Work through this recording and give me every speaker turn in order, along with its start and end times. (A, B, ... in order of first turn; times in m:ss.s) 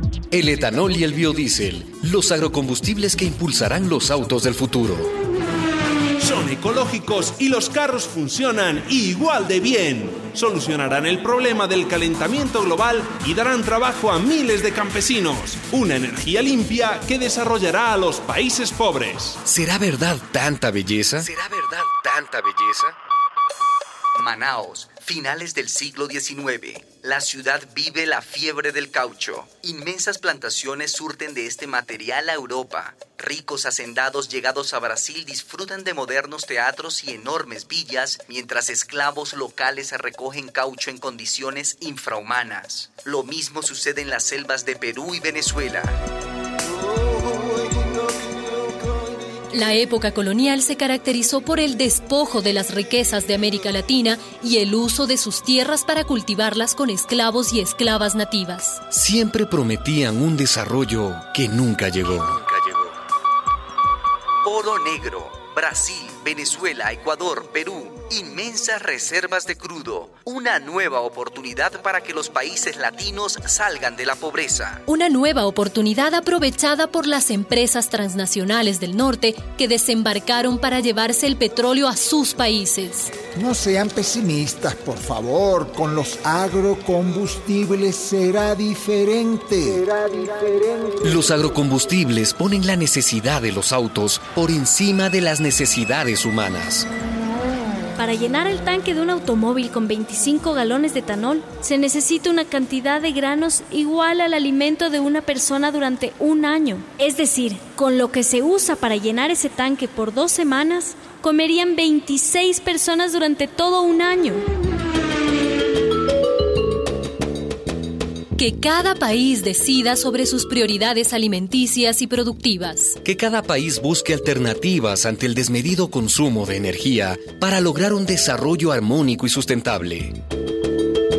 0:00.3-0:05.1 A
0:06.2-0:19.4 B
0:19.5-0:22.9 A
0:24.1-0:46.0 C
0:49.5-0:58.8 D
0:58.9-1:02.9 A
1:04.4-1:14.8 C
1:14.8-1:23.1 D
1:23.3-1:31.0 E
1:31.1-1:36.8 A
1:38.0-1:54.4 F
1:58.4-2:03.0 D
2:03.0-2:10.1 A